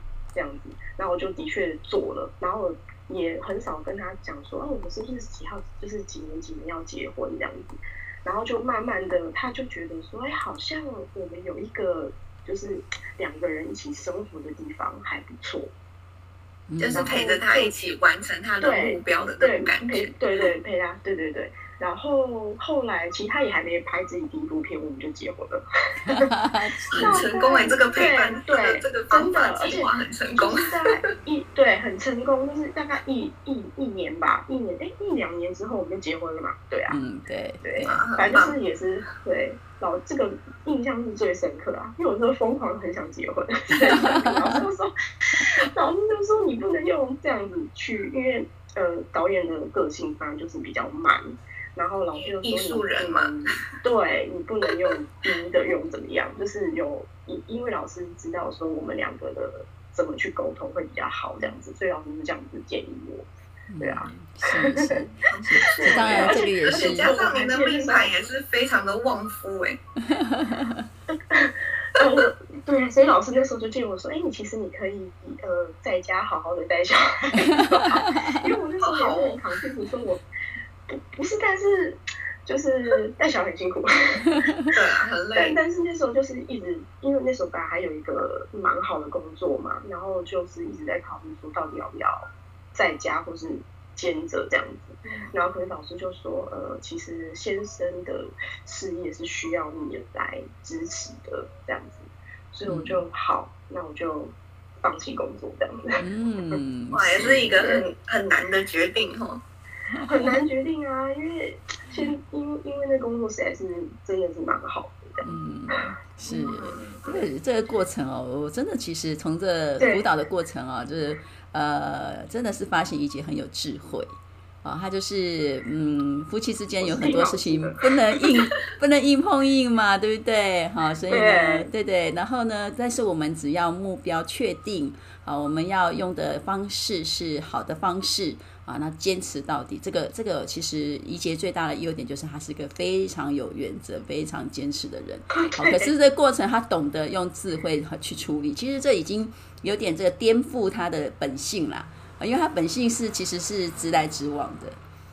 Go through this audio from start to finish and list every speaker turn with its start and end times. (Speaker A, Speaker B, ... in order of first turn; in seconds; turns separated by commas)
Speaker A: 0.3-15.7, Speaker B: 16.7-17.2, Speaker C: 16.8-20.2, Speaker A: 16.9-17.8, Speaker A: 18.6-26.3, Speaker B: 26.0-27.2, Speaker C: 26.9-30.9, Speaker A: 27.0-37.0, Speaker B: 36.9-38.0, Speaker A: 37.6-63.3, Speaker C: 37.9-38.6, Speaker B: 43.9-44.6, Speaker C: 52.1-53.6, Speaker B: 63.7-67.1, Speaker A: 63.8-65.0, Speaker C: 65.3-69.8, Speaker A: 65.8-68.1, Speaker B: 70.0-70.9, Speaker A: 71.1-80.2, Speaker B: 77.5-78.5, Speaker C: 78.8-79.4, Speaker A: 80.9-84.5, Speaker C: 84.7-85.6, Speaker A: 85.3-106.6, Speaker C: 95.0-95.3, Speaker B: 102.7-103.0, Speaker B: 106.0-107.6, Speaker C: 106.9-109.4, Speaker A: 107.5-107.8, Speaker B: 109.9-110.4, Speaker A: 110.0-115.3, Speaker B: 115.2-124.1, Speaker A: 116.4-117.2, Speaker A: 119.8-120.0, Speaker B: 124.6-154.8, Speaker A: 126.8-127.8, Speaker A: 131.1-131.7, Speaker A: 145.3-145.9